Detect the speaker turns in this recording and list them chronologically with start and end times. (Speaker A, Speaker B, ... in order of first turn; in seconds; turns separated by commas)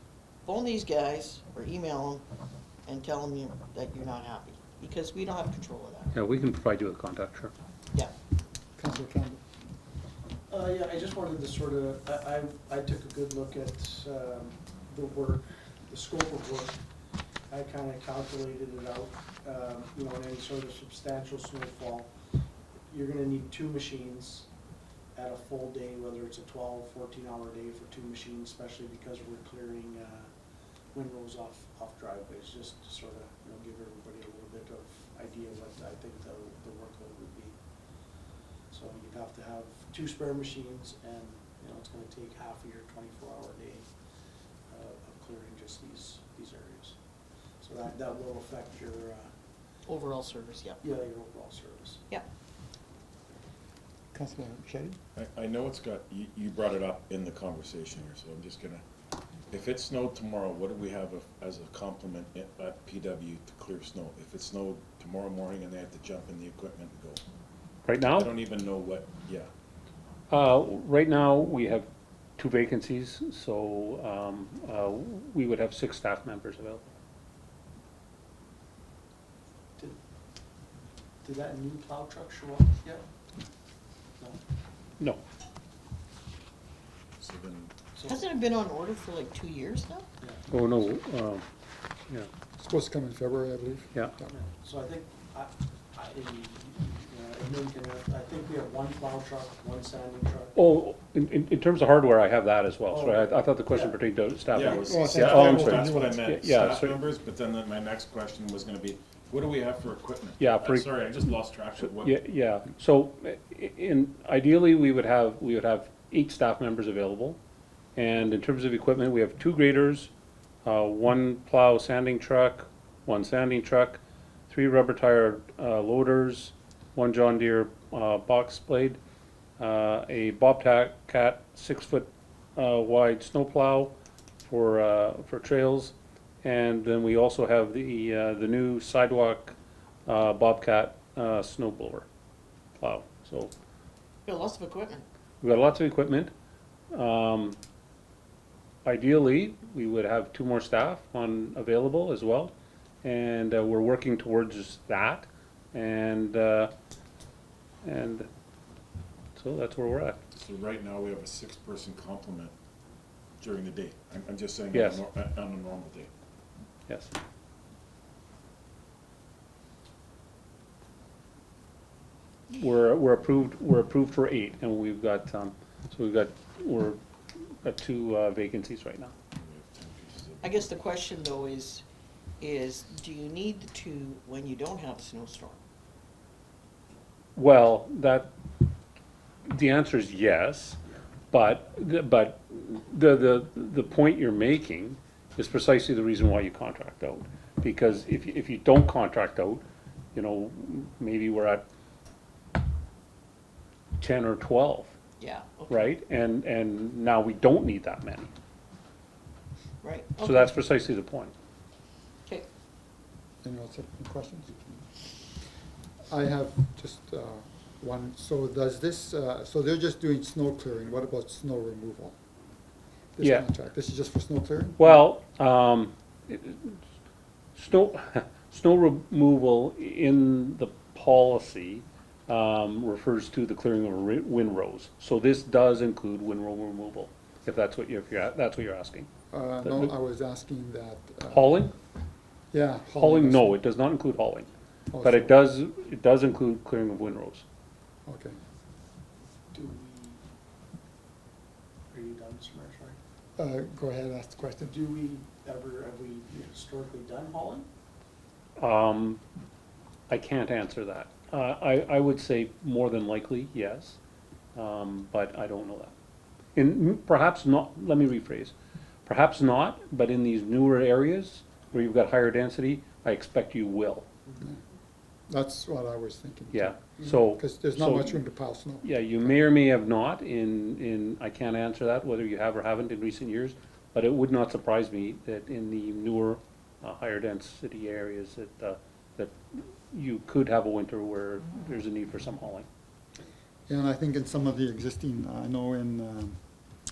Speaker A: 0.4-2.2, Speaker A: 2.9-6.1, Speaker B: 6.1-7.5, Speaker C: 8.8-9.4, Speaker D: 10.5-16.8, Speaker D: 17.5-22.1, Speaker D: 22.9-24.5, Speaker D: 25.1-30.3, Speaker D: 30.9-37.6, Speaker D: 38.7-43.9, Speaker D: 44.7-47.0, Speaker D: 47.6-49.3, Speaker A: 49.9-50.8, Speaker D: 50.8-52.0, Speaker C: 54.1-55.0, Speaker E: 55.1-58.8, Speaker E: 59.5-67.2, Speaker B: 67.8-68.3, Speaker E: 68.0-69.5, Speaker B: 70.3-76.9, Speaker D: 81.2-83.0, Speaker E: 87.2-87.7, Speaker D: 87.9-88.2, Speaker A: 88.0-90.1, Speaker B: 90.5-91.4, Speaker C: 92.6-94.2, Speaker D: 94.3-100.5, Speaker B: 100.5-106.9, Speaker D: 102.9-103.9, Speaker E: 104.5-112.2, Speaker C: 104.7-106.3, Speaker B: 110.4-110.9, Speaker B: 111.8-117.4, Speaker B: 118.0-120.1, Speaker B: 120.6-129.0, Speaker B: 129.6-139.5, Speaker B: 140.1-142.1, Speaker B: 142.8-143.5, Speaker A: 144.2-145.0, Speaker B: 145.4-146.3, Speaker B: 146.9-147.6, Speaker B: 148.8-152.5, Speaker B: 153.0-156.7, Speaker B: 157.8-158.3, Speaker B: 159.3-160.2, Speaker E: 160.3-162.5, Speaker E: 163.4-166.1, Speaker B: 164.7-165.0, Speaker B: 166.9-167.1, Speaker B: 172.5-177.0, Speaker B: 177.6-179.1, Speaker E: 179.3-180.7, Speaker A: 180.4-181.8, Speaker A: 182.4-185.6, Speaker B: 187.3-188.3, Speaker B: 189.5-190.8, Speaker B: 191.3-199.6, Speaker B: 200.1-201.6, Speaker B: 204.0-204.9, Speaker A: 205.2-205.8, Speaker B: 205.7-208.3, Speaker A: 209.8-210.5, Speaker B: 210.2-211.3, Speaker C: 213.4-214.8, Speaker C: 216.1-222.2, Speaker C: 223.1-225.0, Speaker B: 223.2-223.5, Speaker B: 224.8-226.8, Speaker B: 227.6-239.1, Speaker C: 239.3-241.7, Speaker B: 239.6-239.9, Speaker B: 241.3-241.7, Speaker C: 242.5-243.6, Speaker B: 242.9-244.5, Speaker C: 244.9-245.4, Speaker B: 245.0-247.4, Speaker C: 248.1-248.4, Speaker D: 249.5-250.2, Speaker D: 251.9-253.0, Speaker C: 253.4-254.8, Speaker D: 254.7-257.7, Speaker B: 258.6-259.2, Speaker B: 260.1-264.0, Speaker B: 264.5-265.9, Speaker B: 266.6-268.5, Speaker B: 269.1-274.1, Speaker C: 275.3-278.9, Speaker B: 276.5-278.2, Speaker B: 278.8-292.6, Speaker C: 293.7-296.4